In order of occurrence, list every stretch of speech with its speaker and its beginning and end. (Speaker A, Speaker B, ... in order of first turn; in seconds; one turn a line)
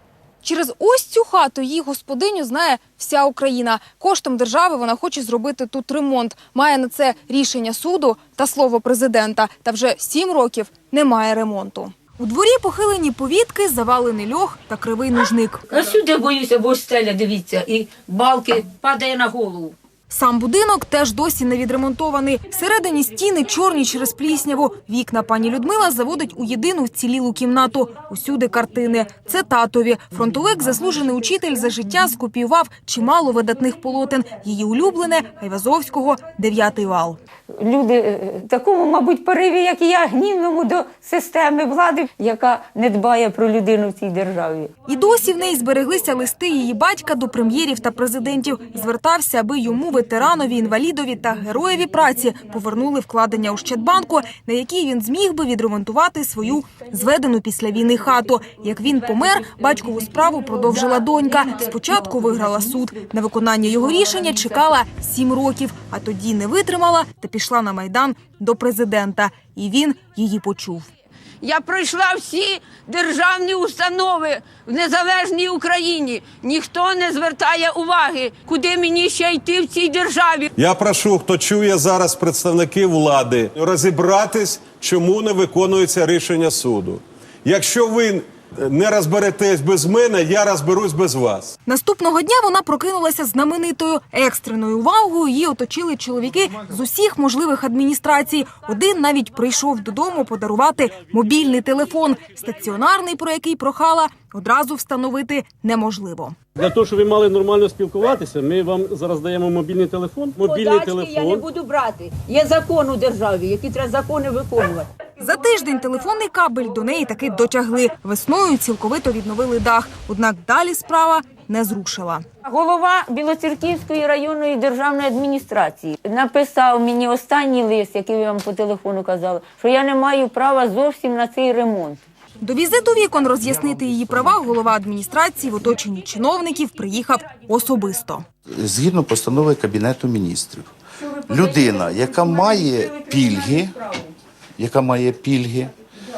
Speaker A: 0.4-15.6
Speaker B: 15.7-19.7
Speaker A: 20.1-37.2
Speaker B: 37.6-44.7
Speaker A: 44.9-70.9
Speaker C: 71.4-80.5
Speaker B: 75.8-76.3
Speaker D: 80.5-91.5
Speaker A: 91.7-106.3
Speaker E: 106.5-111.5
Speaker C: 110.5-114.8
Speaker B: 111.0-114.8
Speaker A: 115.2-122.2
Speaker B: 122.4-132.0
Speaker A: 132.4-138.2
Speaker F: 138.5-140.7
Speaker F: 141.2-143.8
Speaker F: 144.6-145.7